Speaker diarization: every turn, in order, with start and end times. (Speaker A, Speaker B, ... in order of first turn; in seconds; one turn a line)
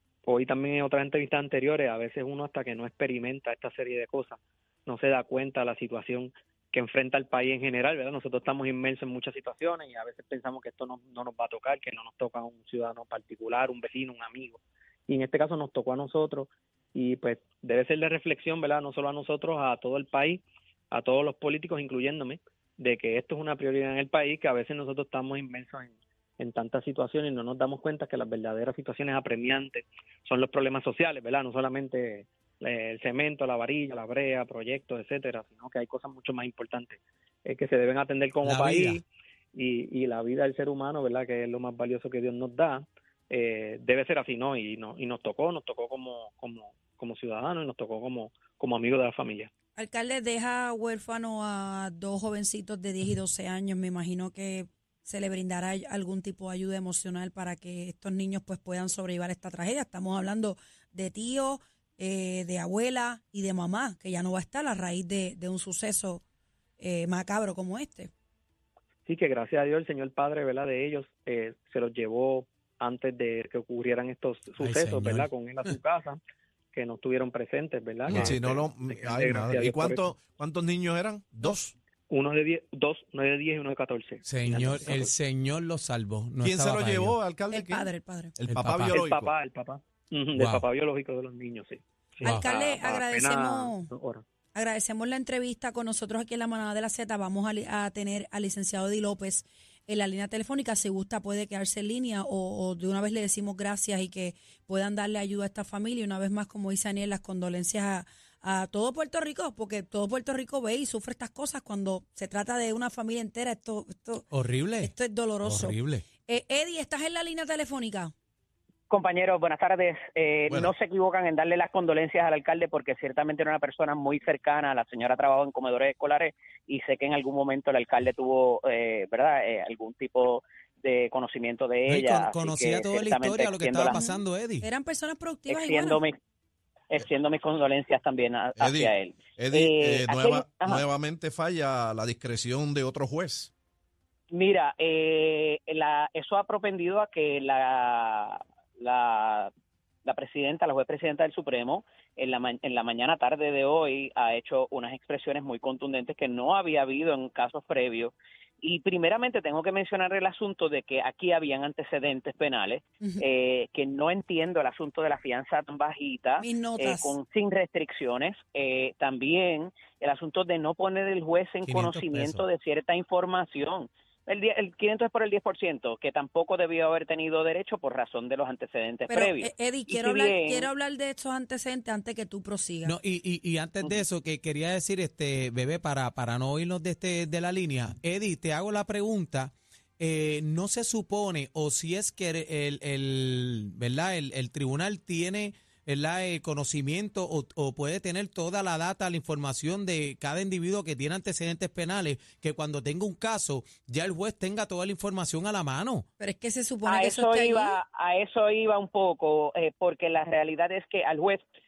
Speaker A: 0.2-49.5
Speaker B: 38.4-39.0
Speaker C: 49.8-66.2
Speaker C: 66.8-68.1
Speaker A: 69.0-76.2
Speaker B: 74.6-75.8
Speaker A: 76.7-80.1
Speaker D: 78.1-81.7
Speaker A: 82.1-85.1
Speaker B: 84.2-87.2
Speaker D: 86.4-89.3
Speaker C: 87.5-88.3
Speaker B: 88.5-89.0
Speaker A: 88.9-94.2
Speaker B: 90.3-90.6
Speaker C: 92.2-93.9
Speaker C: 94.5-114.2
Speaker B: 114.3-116.0
Speaker C: 114.8-118.1
Speaker E: 118.9-134.0
Speaker B: 131.8-134.7
Speaker C: 133.9-136.0
Speaker E: 135.5-136.1
Speaker E: 136.9-140.8
Speaker D: 138.6-143.5
Speaker E: 144.3-149.5
Speaker E: 150.0-180.7
Speaker C: 166.4-167.1
Speaker B: 171.6-172.4
Speaker C: 179.1-182.9
Speaker B: 182.8-206.0
Speaker C: 206.2-207.8
Speaker E: 206.8-211.4